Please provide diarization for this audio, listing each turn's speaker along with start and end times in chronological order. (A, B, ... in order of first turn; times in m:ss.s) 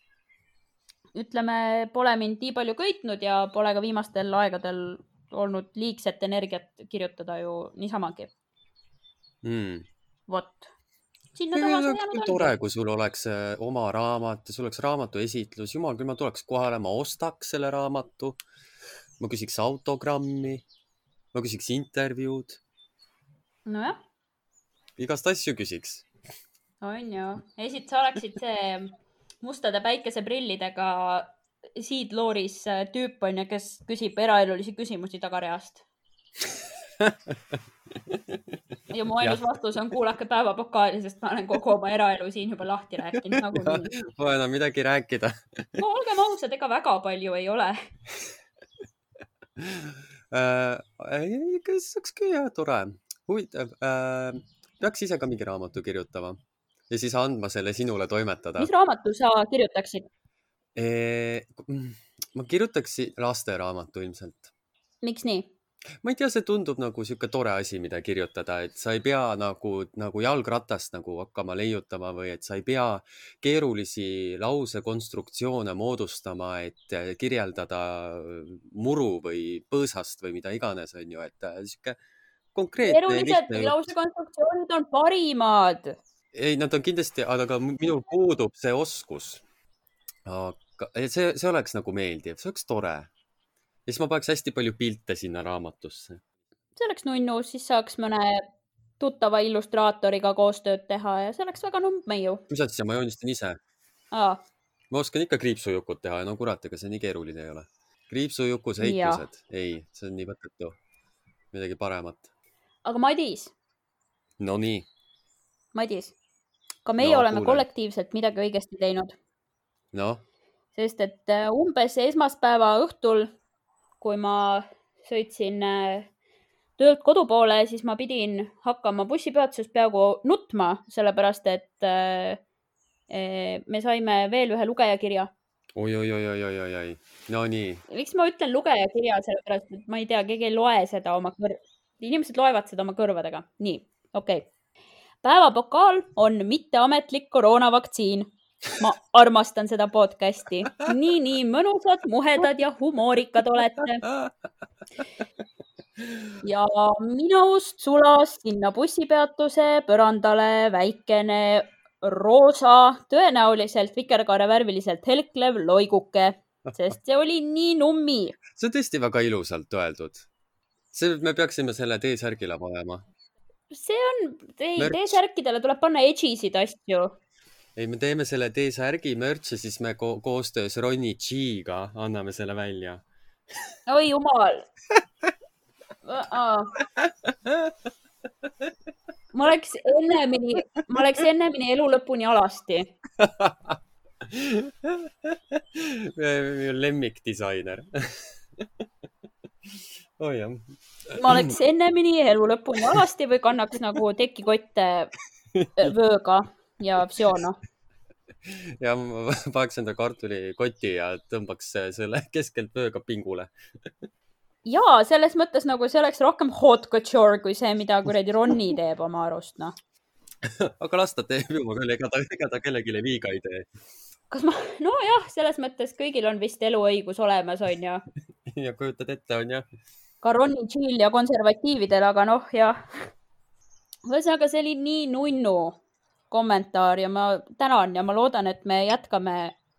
0:01.1-0:08.3 A
0:09.4-0:09.9 B
0:10.3-0:10.7 A
0:11.3-0:12.5 A
0:11.5-0:18.4 B
0:19.2-0:20.6 B
0:21.3-0:22.6 B
0:23.6-0:24.0 A
0:25.0-0:26.0 B
0:26.8-0:35.8 A
0:37.0-0:37.3 B
0:38.0-0:38.4 B
0:38.9-0:43.9 A
0:43.1-0:45.8 B
0:45.8-0:47.8 A
0:49.6-0:56.4 B
0:56.9-0:58.7 B
0:58.6-1:00.0 A
1:00.7-1:04.5 B
1:05.0-1:05.5 A
1:06.0-1:22.0 B
1:22.5-1:23.8 B
1:22.8-1:26.0 A
1:26.3-1:29.4 B
1:30.2-1:33.1 B
1:33.8-1:36.2 B
1:36.8-1:38.4 A
1:39.0-1:42.4 A
1:42.5-1:43.6 B
1:44.1-1:44.4 A
1:44.9-1:50.8 B
1:48.8-1:49.2 A
1:51.5-1:52.3 B
1:52.8-1:53.5 A
1:54.4-1:54.9 B
1:55.7-1:56.1 A
1:56.8-1:59.1 A
1:57.0-1:57.6 B
1:59.9-2:00.2 B
2:00.8-2:03.3 A
2:04.0-2:06.1 A
2:06.8-2:12.4 A
2:13.1-2:15.3 A
2:15.8-2:17.8 B
2:17.9-2:24.5 A
2:25.2-2:34.1 A
2:36.4-2:48.4 A
2:46.6-2:46.9 B
2:48.5-2:50.2 B
2:50.9-2:53.0 B
2:53.7-2:57.2 A
2:54.8-2:55.2 B
2:57.8-3:03.0 B
3:03.9-3:04.7 A
3:06.0-3:06.7 A
3:07.0-3:07.7 B
3:09.3-3:12.9 A
3:13.2-3:18.7 B
3:19.7-3:21.5 B
3:21.1-3:25.1 A
3:25.5-3:25.8 B
3:25.8-3:27.6 A
3:28.4-3:33.9 B
3:34.6-3:39.7 A
3:40.4-3:43.7 B
3:44.3-3:48.0 A
3:48.4-3:49.6 B
3:50.2-3:52.8 A
3:54.0-3:55.8 A
3:56.3-3:59.5 A